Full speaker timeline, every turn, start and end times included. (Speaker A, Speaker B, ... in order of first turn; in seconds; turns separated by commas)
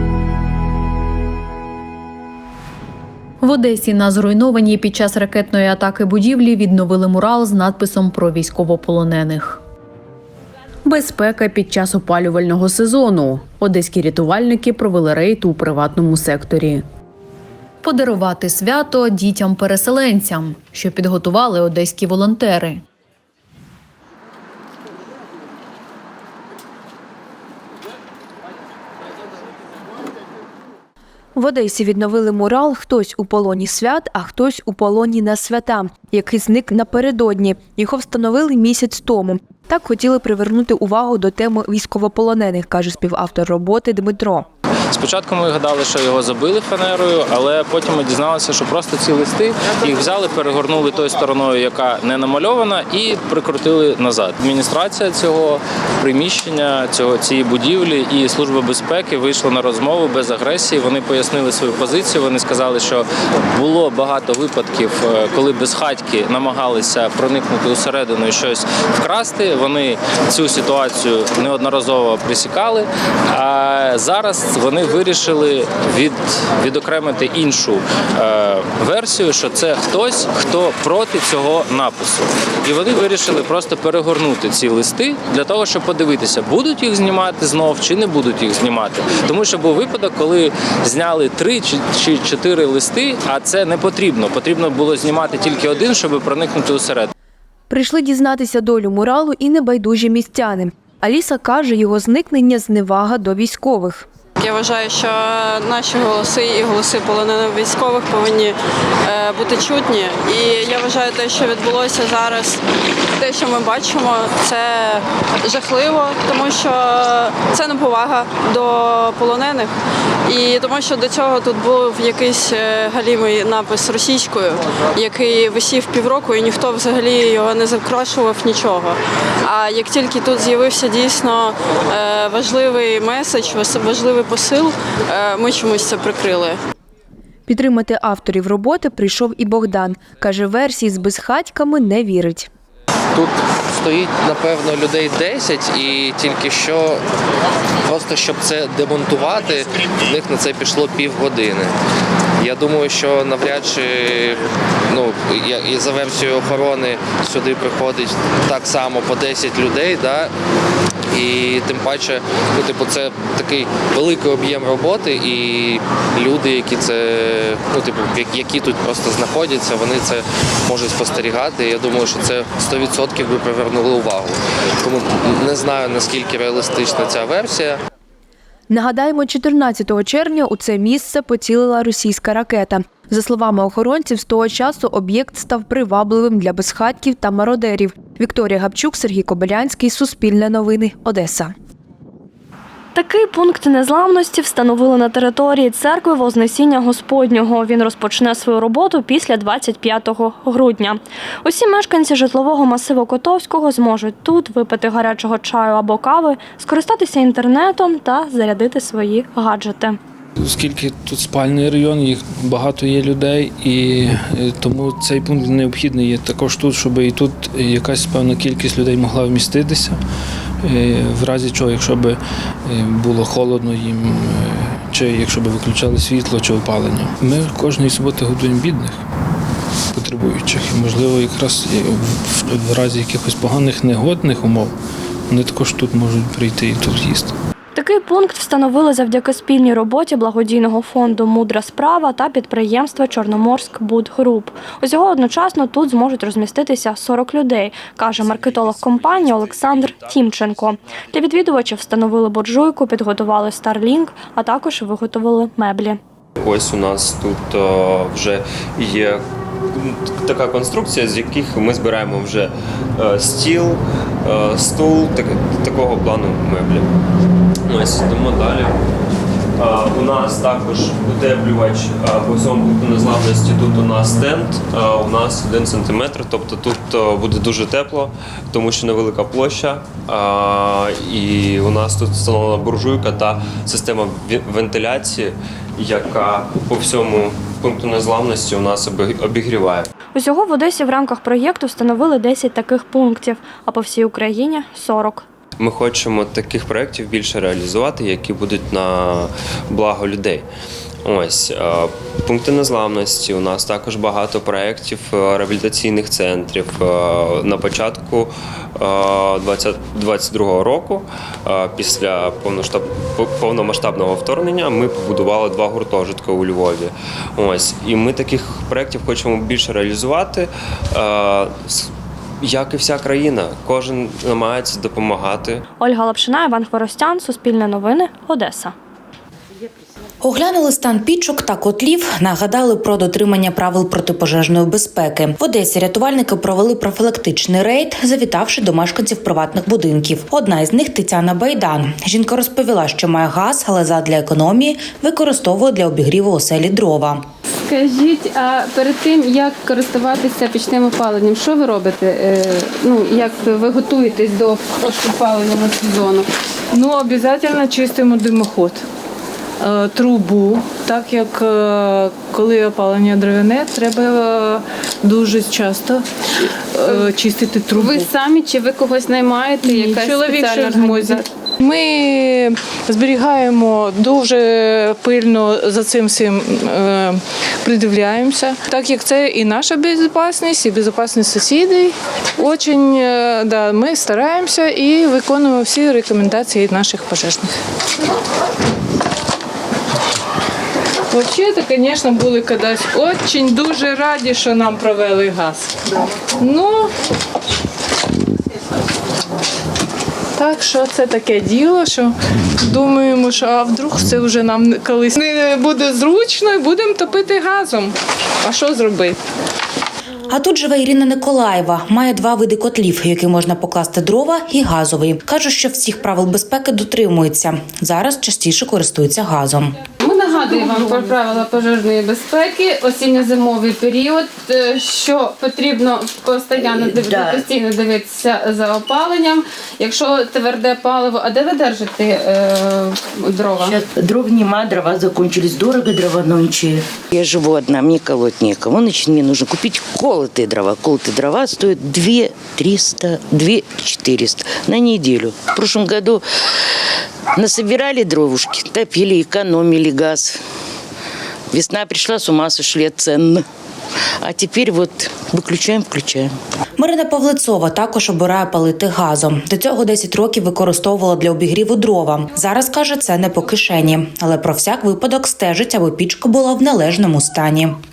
Speaker A: 3.4-9.6, Speaker A: 10.9-16.8, Speaker A: 17.8-22.8, Speaker B: 31.4-44.5, Speaker C: 44.9-97.1, Speaker B: 97.7-104.0, Speaker D: 104.4-108.6, Speaker D: 109.1-112.6, Speaker D: 113.2-119.7, Speaker D: 120.3-136.6, Speaker B: 137.5-142.5, Speaker E: 143.2-147.0, Speaker E: 147.9-151.7, Speaker E: 152.4-154.4, Speaker E: 154.9-160.3, Speaker E: 161.1-177.8, Speaker B: 178.7-191.5, Speaker F: 192.9-210.0, Speaker G: 210.4-220.0, Speaker G: 220.6-229.0, Speaker G: 229.9-234.7, Speaker G: 235.3-237.3, Speaker F: 237.8-256.0, Speaker H: 256.4-259.2, Speaker H: 259.7-266.9, Speaker H: 267.7-268.8, Speaker H: 269.6-289.9, Speaker F: 290.1-295.2, Speaker H: 295.6-300.5, Speaker H: 301.1-321.9, Speaker H: 322.4-325.7, Speaker F: 325.8-328.7, Speaker I: 330.2-347.2, Speaker J: 347.7-356.3, Speaker K: 356.8-358.8, Speaker K: 359.6-366.1, Speaker K: 366.8-367.8, Speaker J: 366.8-367.2, Speaker J: 367.7-371.3, Speaker F: 370.4-370.9, Speaker K: 371.6-387.5, Speaker K: 391.1-395.7, Speaker K: 396.4-396.9, Speaker K: 400.4-409.2, Speaker I: 410.3-419.8, Speaker J: 420.0-433.8, Speaker L: 426.8-427.4, Speaker L: 433.6-446.2, Speaker L: 447.4-450.4, Speaker L: 451.5-453.4, Speaker L: 454.2-456.3, Speaker I: 456.8-467.8